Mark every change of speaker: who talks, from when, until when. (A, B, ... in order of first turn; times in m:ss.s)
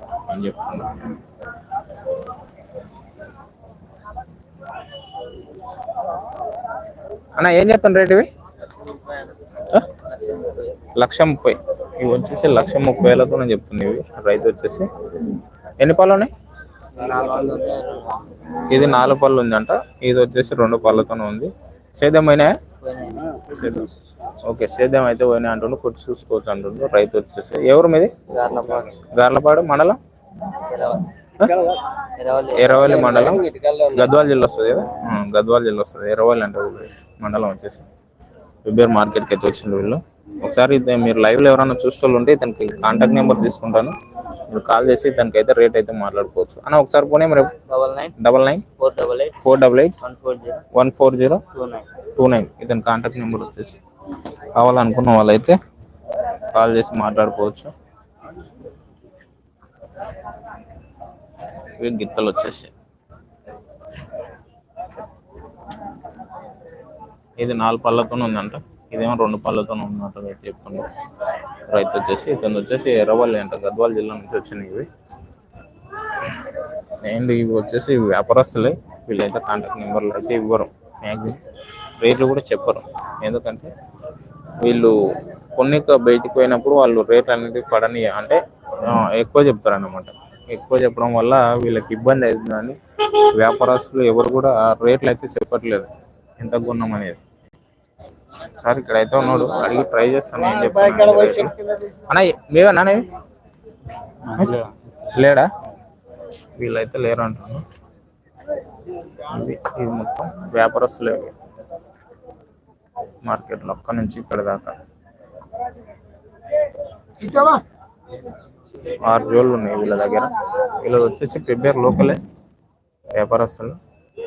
0:00.2-0:01.1 A
0:07.4-0:08.3 A
0:10.0-0:10.8 B
0:11.0-0:14.8 A
0:15.8-0:16.3 A
0:16.9-0:18.2 B
0:18.6-0:22.5 A
0:22.8-0:23.3 B
0:23.5-0:23.9 A
0:24.4-0:28.2 A
0:28.3-0:28.9 B
0:29.1-0:30.0 A
0:30.6-0:34.0 B
0:32.6-0:37.8 A
0:38.6-0:43.9 A
0:44.5-0:47.5 A
0:47.7-0:48.1 B
0:48.2-0:48.7 A
0:48.8-0:49.4 B
0:49.4-0:50.0 A
0:50.0-0:50.6 B
0:50.7-0:51.4 A
0:51.5-0:51.9 B
0:52.2-0:53.8 A
0:54.5-0:55.6 A
0:56.5-0:57.7 A
1:01.8-1:02.7 A
1:07.4-1:10.9 A
1:11.7-1:14.9 A
1:17.0-1:21.4 A
1:22.0-1:23.7 A
1:24.6-1:25.0 A
1:25.5-1:37.2 A
1:38.4-1:41.6 A
1:42.1-1:43.1 A
1:44.3-1:44.6 A
1:44.4-1:44.7 B
1:45.1-1:45.5 A
1:46.6-1:47.6 A
1:49.3-1:51.3 A
1:53.2-1:54.8 A
1:59.0-2:02.2 A
2:03.1-2:03.8 A